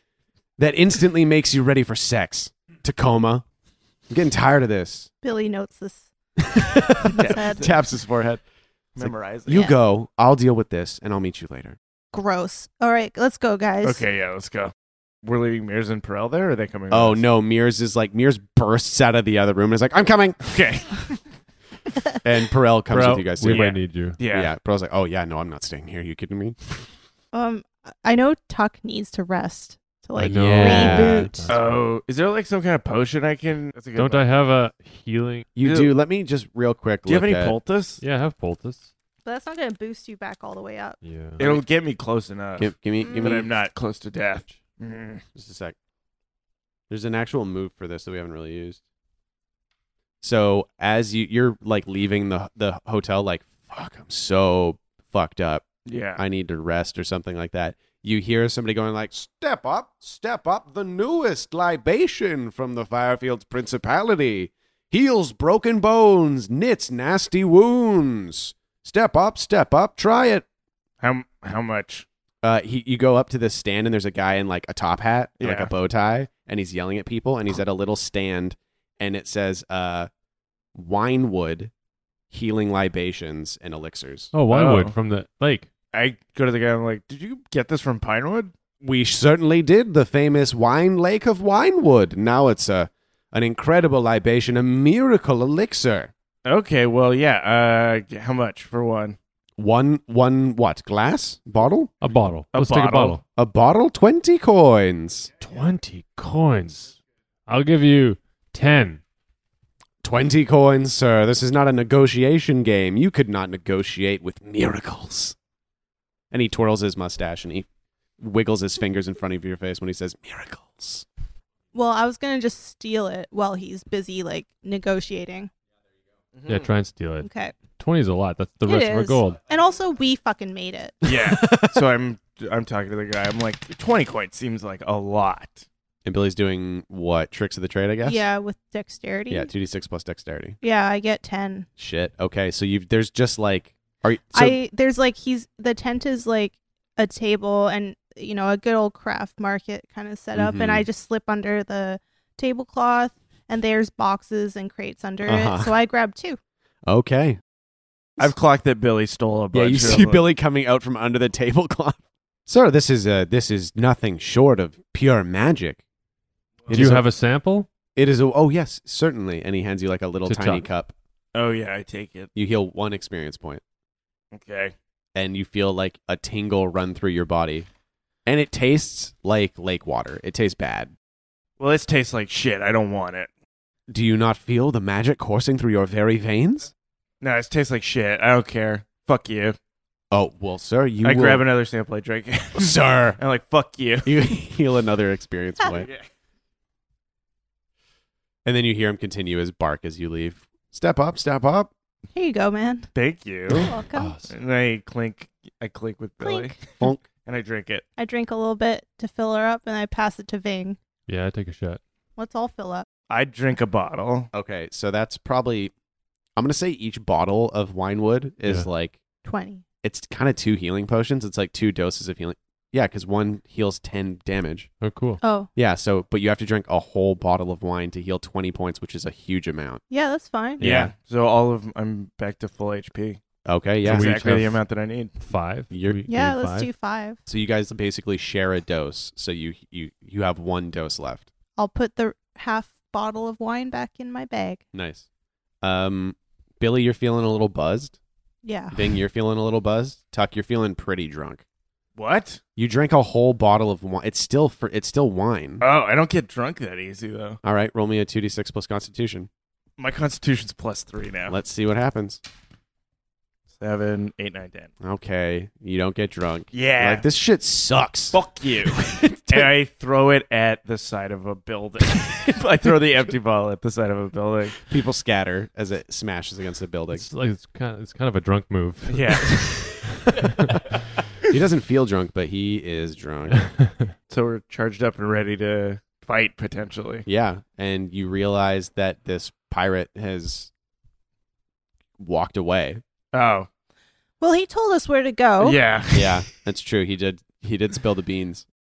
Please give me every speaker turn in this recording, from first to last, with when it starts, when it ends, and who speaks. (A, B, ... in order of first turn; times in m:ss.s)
0:00.6-0:03.4 A
0:04.1-0:05.1 A
0:05.2-0:06.1 B
0:06.4-0:08.4 A
0:06.9-0:07.7 B
0:07.2-0:08.0 C
0:09.0-0:09.6 C
0:09.0-0:11.8 A
0:12.1-0:14.0 B
0:13.8-0:17.2 C
0:16.9-0:20.4 A
0:20.4-0:21.2 C
0:22.2-0:26.9 A
0:22.9-0:24.2 D
0:23.4-0:24.5 C
0:27.3-0:31.5 B
0:30.2-0:31.8 D
0:30.3-0:31.3 A
0:31.5-0:34.2 C
0:34.0-0:35.5 D
0:35.6-0:37.6 A
0:35.6-0:35.9 C
0:37.1-0:38.0 C
0:38.0-0:38.9 D
0:39.2-0:41.0 B
0:41.0-0:41.4 D
0:41.4-0:45.2 C
0:42.6-0:43.5 A
0:43.0-0:43.4 B
0:45.4-0:45.8 A
0:46.9-0:48.8 A
0:50.2-1:10.4 A
0:55.9-0:56.2 C
1:11.0-1:12.0 C
1:12.4-1:20.1 A
1:15.4-1:15.7 C
1:20.8-1:21.7 A
1:22.3-1:24.3 A
1:24.3-1:25.7 D
1:24.5-1:25.0 C
1:25.9-1:28.5 C
1:28.8-1:36.1 A
1:36.4-1:39.2 C
1:39.6-1:42.0 A
1:42.0-1:43.2 D
1:42.5-1:43.2 C
1:43.4-1:45.3 A
1:45.4-1:49.0 D
1:50.0-1:55.4 A
1:56.3-1:57.7 A
1:58.2-2:01.0 A
2:01.7-2:05.5 B
2:06.4-2:06.7 C
2:06.5-2:09.4 D
2:07.2-2:07.6 B
2:08.6-2:11.0 B
2:11.0-2:15.6 C
2:11.1-2:11.8 A
2:16.0-2:18.2 A
2:18.0-2:19.5 B
2:19.3-2:20.6 A
2:20.6-2:21.7 B
2:21.8-2:24.6 A
2:24.3-2:36.4 B
2:30.4-2:30.8 A
2:35.3-2:35.7 A
2:36.9-2:37.4 A
2:38.2-2:40.2 C
2:39.5-2:45.8 A
2:46.7-2:47.7 D
2:46.7-2:47.1 A
2:48.0-2:50.9 A
2:50.3-2:50.7 D
2:51.3-2:52.3 C
2:52.4-2:53.6 A
2:54.3-2:54.7 C
2:55.2-2:57.7 A
2:58.3-3:00.9 A
3:01.6-3:03.3 C
3:03.9-3:06.7 A
3:07.2-3:09.6 C
3:10.1-3:11.4 A
3:11.0-3:14.1 C
3:12.6-3:13.2 A
3:14.0-3:15.9 A
3:15.7-3:16.0 C
3:18.4-3:21.7 A
3:22.1-3:22.9 B
3:22.9-3:23.7 C
3:23.6-3:24.2 B
3:23.9-3:24.3 D
3:24.3-3:26.6 C
3:26.2-3:26.6 B
3:27.2-3:27.8 C
3:28.0-3:30.8 B
3:31.1-3:31.8 D
3:32.2-3:32.9 B
3:33.1-3:34.3 C
3:34.3-3:35.7 A
3:36.4-3:39.0 A
3:39.2-3:39.6 B
3:39.8-3:44.7 A
3:44.8-3:45.2 D
3:45.2-3:45.5 B
3:45.6-3:49.8 A
3:49.9-3:50.6 B
3:50.6-3:50.9 A
3:50.6-3:53.2 C
3:53.5-3:54.1 A
3:53.8-3:54.6 D
3:53.8-3:55.2 C
3:55.2-3:56.7 D
3:55.7-3:56.0 A
3:56.1-3:57.2 B
3:57.3-4:01.3 A
4:01.6-4:04.6 B
4:04.7-4:05.1 A
4:05.6-4:08.0 A
4:08.4-4:08.8 B
4:08.7-4:11.4 A
4:12.0-4:12.4 C
4:12.6-4:15.6 A
4:15.6-4:17.4 C
4:17.4-4:19.3 A
4:19.8-4:21.4 C
4:21.3-4:22.2 A
4:23.6-4:24.7 C
4:24.8-4:29.5 A
4:26.5-4:27.1 C
4:28.1-4:34.6 C
4:34.7-4:37.1 A
4:37.0-4:40.6 D
4:38.9-4:40.0 C
4:41.3-4:43.5 A
4:44.1-4:47.1 C
4:47.1-4:50.5 A
4:52.0-4:52.8 A
4:53.1-4:53.5 C
4:54.2-4:55.6 B
4:55.4-4:56.3 C
4:55.9-4:58.4 A